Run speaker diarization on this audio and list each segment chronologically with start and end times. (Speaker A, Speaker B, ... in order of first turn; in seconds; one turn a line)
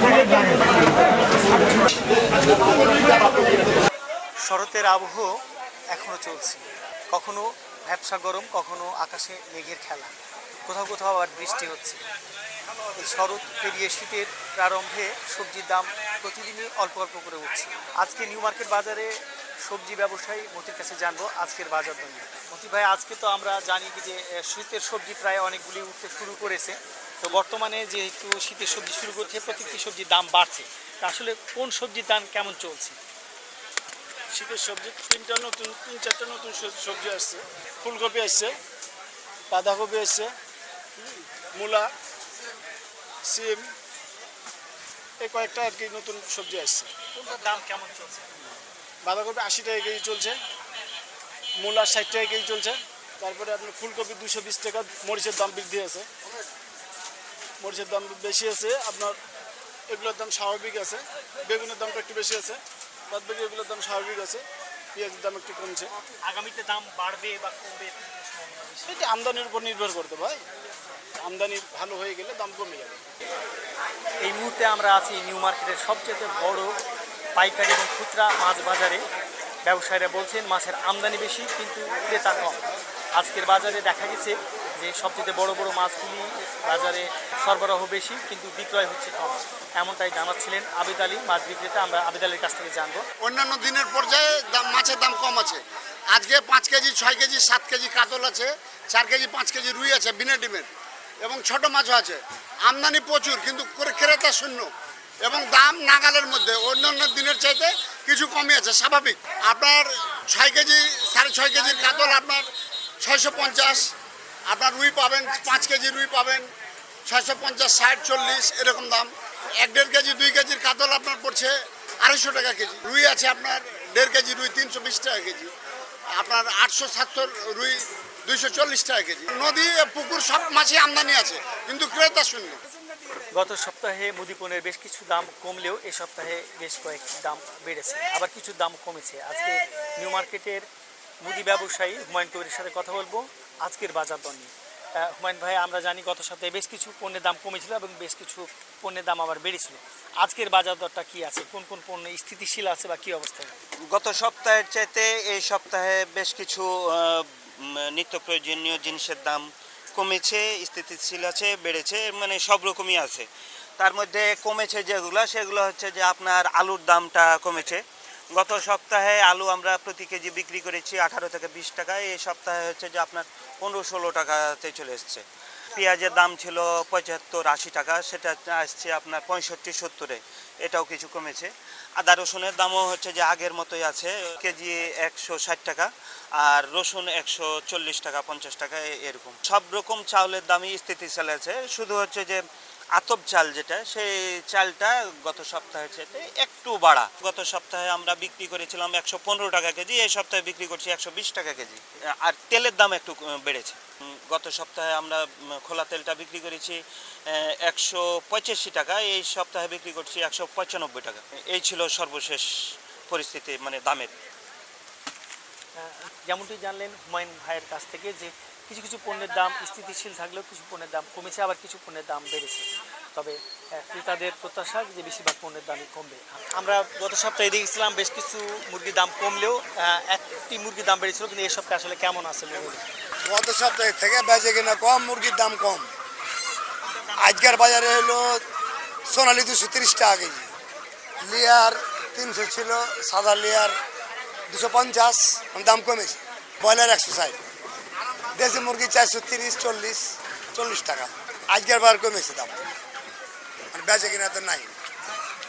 Speaker A: 4.4-5.4
Speaker A: 5.9-12.0
Speaker A: 12.9-19.1
Speaker A: 19.6-33.0
Speaker B: 34.3-38.5
Speaker B: 39.5-40.3
Speaker B: 41.0-41.9
Speaker B: 43.3-43.7
Speaker B: 45.2-46.9
Speaker A: 47.1-48.3
Speaker B: 49.0-50.4
Speaker B: 51.6-56.1
Speaker B: 57.6-59.2
Speaker B: 59.9-64.4
Speaker B: 64.9-65.9
Speaker A: 66.2-69.0
Speaker B: 68.9-70.4
Speaker B: 71.2-73.1
Speaker A: 74.2-76.7
Speaker A: 77.4-79.0
Speaker A: 79.7-93.0
Speaker C: 93.2-100.7
Speaker C: 101.2-104.7
Speaker C: 105.2-112.5
Speaker C: 113.0-113.9
Speaker C: 114.5-116.5
Speaker C: 117.1-125.5
Speaker C: 126.1-132.6
Speaker A: 133.3-140.7
Speaker A: 141.2-153.6
Speaker D: 153.9-163.3
Speaker D: 163.8-167.8
Speaker D: 168.3-192.4
Speaker D: 193.0-212.5
Speaker D: 213.1-214.1
Speaker A: 215.8-232.8
Speaker E: 233.3-235.9
Speaker E: 237.2-238.4
Speaker E: 239.1-240.5
Speaker E: 241.2-243.8
Speaker E: 244.5-247.4
Speaker E: 248.3-252.6
Speaker E: 253.7-254.7